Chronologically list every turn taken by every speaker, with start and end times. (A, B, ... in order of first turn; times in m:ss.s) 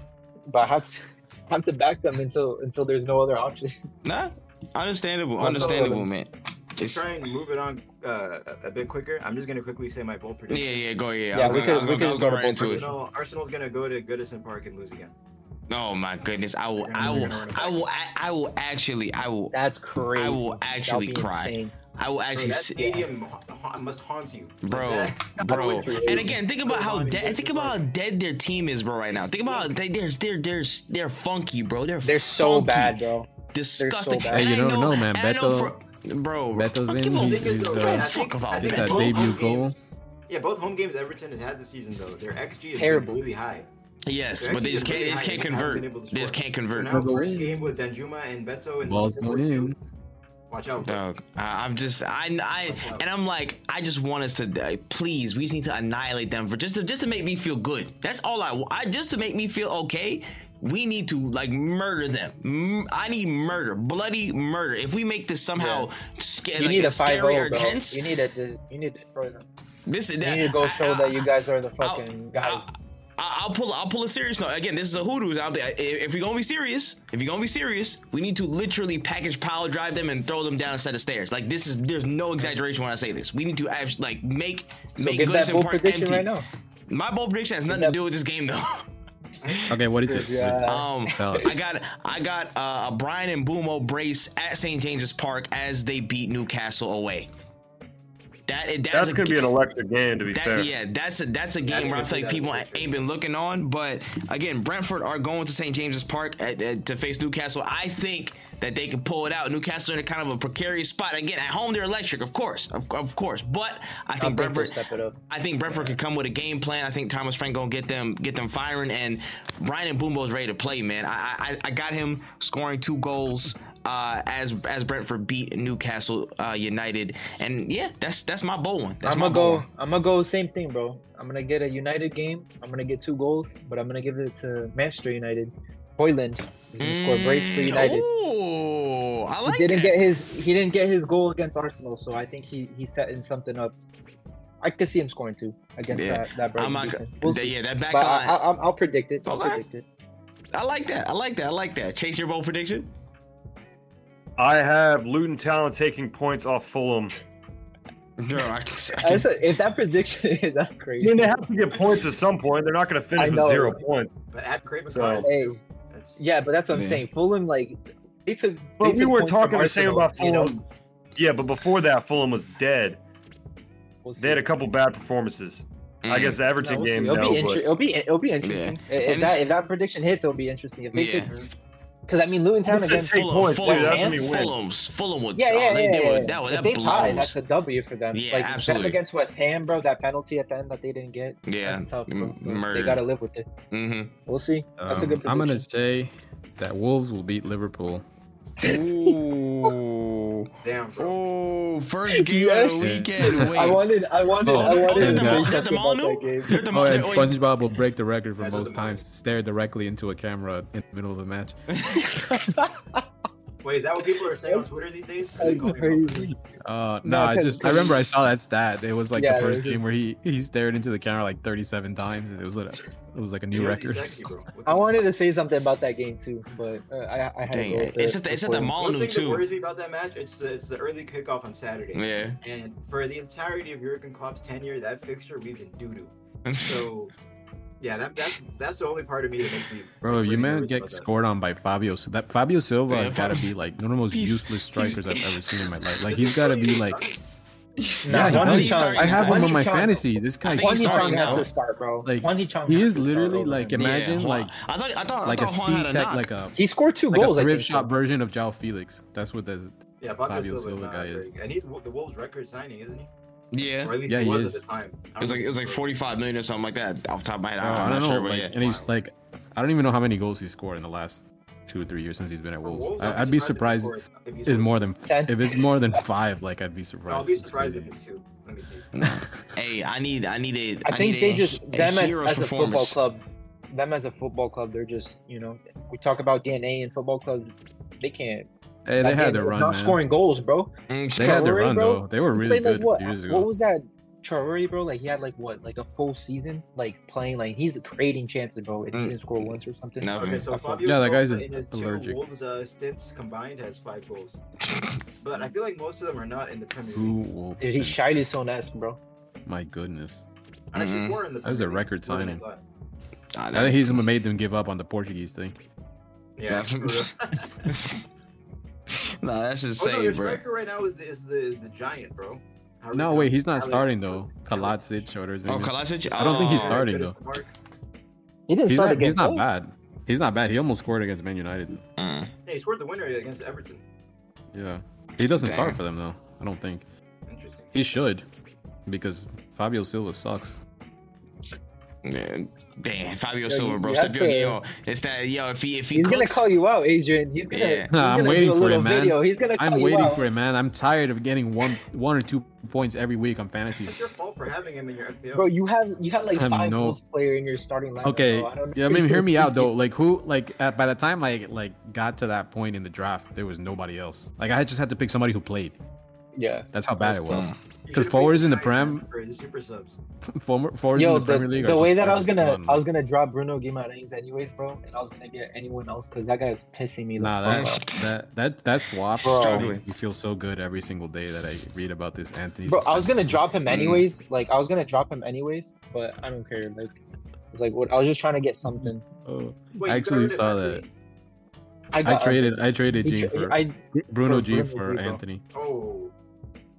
0:00.5-0:03.8 A
0:04.0-0:07.0 B
0:05.4-0:06.1 A
0:05.4-0:06.0 C
0:06.8-0:10.8 C
0:10.5-0:12.9 B
0:11.3-0:12.9 A
0:11.4-0:15.1 C
0:15.7-0:19.6 B
0:16.8-0:17.9 C
0:19.5-0:21.7 A
0:20.2-0:23.0 B
0:22.3-0:27.8 C
0:24.6-0:33.0 B
0:25.4-0:26.4 A
0:29.1-0:29.7 C
0:32.0-0:34.5 A
0:33.5-0:39.4 B
0:34.3-0:35.8 D
0:36.5-0:39.8 D
0:37.1-0:43.7 C
0:42.7-0:43.2 A
0:44.1-0:47.1 B
0:44.4-0:49.8 C
0:46.9-0:47.7 D
0:48.8-0:49.8 D
0:50.5-0:51.0 C
0:50.8-1:08.0 B
0:52.6-0:53.0 C
1:05.6-1:05.9 A
1:06.6-1:09.5 A
1:09.9-1:11.2 B
1:10.2-1:12.7 A
1:11.8-1:26.3 B
1:25.0-1:26.5 A
1:26.9-1:28.9 B
1:27.7-1:28.0 A
1:29.7-1:31.6 D
1:30.0-1:31.2 A
1:30.6-1:37.3 B
1:38.5-1:39.4 B
1:38.9-1:40.7 E
1:40.3-1:54.8 B
1:41.6-1:43.0 C
1:54.2-1:55.2 A
1:55.3-2:09.7 B
2:09.0-2:18.0 A
2:16.8-2:20.0 B
2:19.5-2:23.8 A
2:24.6-2:29.8 A
2:25.9-2:28.4 B
2:29.2-2:29.6 B
2:30.5-2:32.9 B
2:34.4-2:37.1 E
2:38.2-2:39.3 B
2:39.0-2:41.4 A
2:41.0-2:44.1 E
2:43.2-2:43.8 A
2:44.3-2:46.2 C
2:44.9-2:45.6 A
2:45.0-2:45.3 E
2:46.2-2:50.6 A
2:46.7-2:47.0 B
2:48.8-2:50.6 E
2:51.2-2:53.0 E
2:54.0-2:54.4 A
2:54.2-2:57.6 E
2:56.0-2:56.4 B
2:56.6-3:01.4 A
2:58.4-2:59.4 B
3:00.9-3:01.3 B
3:02.1-3:04.2 A
3:02.7-3:04.6 E
3:02.9-3:07.4 B
3:05.4-3:13.5 A
3:08.1-3:09.0 B
3:11.5-3:13.0 B
3:13.7-3:14.1 B
3:14.3-3:15.6 A
3:14.8-3:18.0 D
3:18.6-3:19.7 A
3:18.6-3:23.8 B
3:20.6-3:21.2 C
3:22.1-3:26.6 A
3:22.8-3:23.7 D
3:24.4-3:25.5 D
3:24.5-3:27.4 B
3:26.7-3:31.6 D
3:28.4-3:29.0 C
3:31.7-3:32.0 B
3:32.0-3:33.0 A
3:33.6-3:36.3 C
3:35.4-3:36.4 A
3:36.6-3:44.3 D
3:37.0-3:38.0 A
3:39.2-3:39.8 A
3:43.5-3:45.1 C
3:44.7-3:48.7 A
3:47.5-3:49.4 B
3:48.8-3:57.1 C
3:51.9-3:52.4 B
3:56.5-3:56.9 B
3:57.8-4:01.1 C
4:00.0-4:07.0 D
4:02.9-4:03.5 B
4:04.1-4:05.2 B
4:06.0-4:07.2 C
4:07.8-4:09.8 B
4:08.0-4:10.0 A
4:08.1-4:11.5 D
4:08.3-4:08.6 C
4:10.4-4:11.5 B
4:10.6-4:13.9 A
4:12.0-4:14.5 D
4:13.8-4:16.3 B
4:15.2-4:16.6 D
4:16.6-4:17.9 A
4:17.1-4:21.3 D
4:20.0-4:23.1 C
4:23.5-4:24.0 B
4:23.8-4:25.9 C
4:24.1-4:24.6 D
4:25.2-4:28.6 B
4:27.6-4:34.0 D
4:28.5-4:28.9 C
4:32.6-4:34.9 C
4:34.5-4:37.9 D
4:35.1-4:35.6 A
4:37.1-4:38.9 C
4:39.0-4:43.0 B
4:39.0-4:39.3 D
4:40.8-4:48.5 A
4:48.9-4:50.0 D
4:49.0-5:00.8 A
4:50.9-4:51.5 B
4:51.2-4:53.5 D
4:58.9-4:59.2 B
5:00.0-5:00.5 B
5:00.2-5:04.4 C
5:00.8-5:02.2 D
5:05.2-5:07.2 C
5:06.9-5:08.0 D
5:07.6-5:09.0 A
5:09.5-5:10.2 D
5:10.7-5:12.6 C
5:10.7-5:11.2 B
5:11.4-5:12.4 D
5:13.4-5:14.0 B
5:13.5-5:15.6 D
5:16.4-5:17.7 C
5:16.5-5:18.0 B
5:18.9-5:20.4 B
5:19.8-5:25.1 C
5:22.9-5:27.2 D
5:25.4-5:26.8 B
5:26.1-5:27.5 C
5:28.5-5:29.5 A
5:28.7-5:31.8 D
5:32.0-5:32.3 B
5:32.5-5:33.8 C
5:34.5-5:36.8 D
5:35.2-5:35.8 B
5:37.3-5:37.8 C
5:37.7-5:38.2 D
5:38.9-5:40.6 D
5:42.0-5:46.4 B
5:43.5-5:44.6 A
5:45.9-5:50.2 A
5:47.4-5:47.9 B
5:47.9-5:54.1 D
5:53.8-5:55.5 C
5:55.3-5:59.7 A
5:56.4-5:57.0 D
5:58.0-6:05.8 D
6:06.4-6:07.5 A
6:06.7-6:09.0 D
6:07.3-6:07.6 B
6:07.8-6:10.0 C
6:10.4-6:12.8 D
6:11.0-6:17.8 A
6:17.2-6:23.4 D
6:17.5-6:18.1 B
6:19.2-6:19.8 B
6:19.2-6:19.7 A
6:22.7-6:27.0 A
6:23.7-6:24.0 B
6:27.5-6:29.0 A
6:28.7-6:30.8 D
6:29.8-6:30.9 C
6:31.9-6:35.2 A
6:32.0-6:35.4 D
6:35.5-6:36.1 C